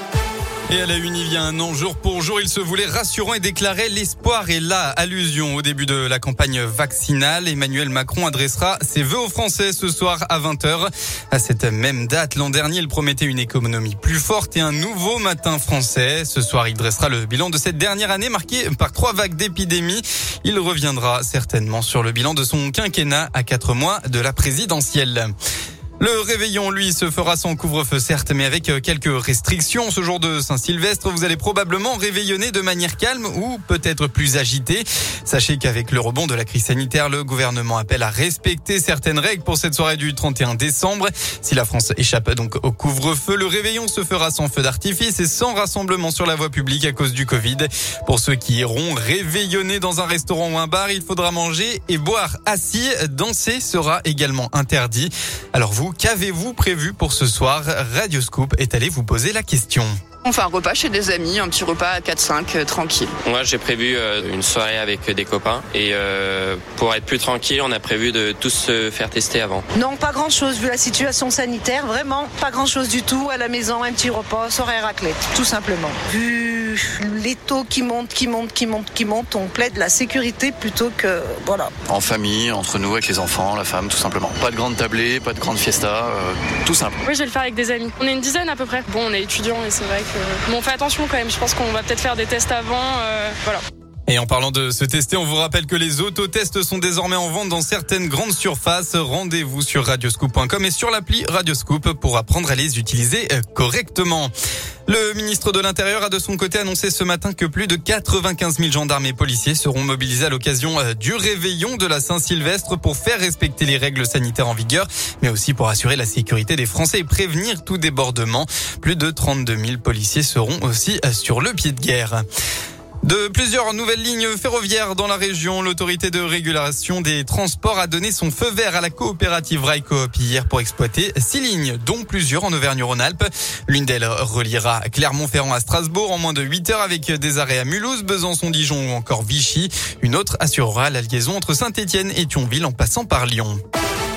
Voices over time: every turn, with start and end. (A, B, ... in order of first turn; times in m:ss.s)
0:00.7-0:25.3 A
0:26.0-1:00.0 A
1:00.2-1:03.1 B
1:03.2-1:09.6 C
1:09.7-1:21.7 D
1:21.9-1:27.0 E
1:27.0-1:33.6 F
1:34.1-1:44.3 A
1:44.9-2:02.2 A
2:03.0-2:23.6 A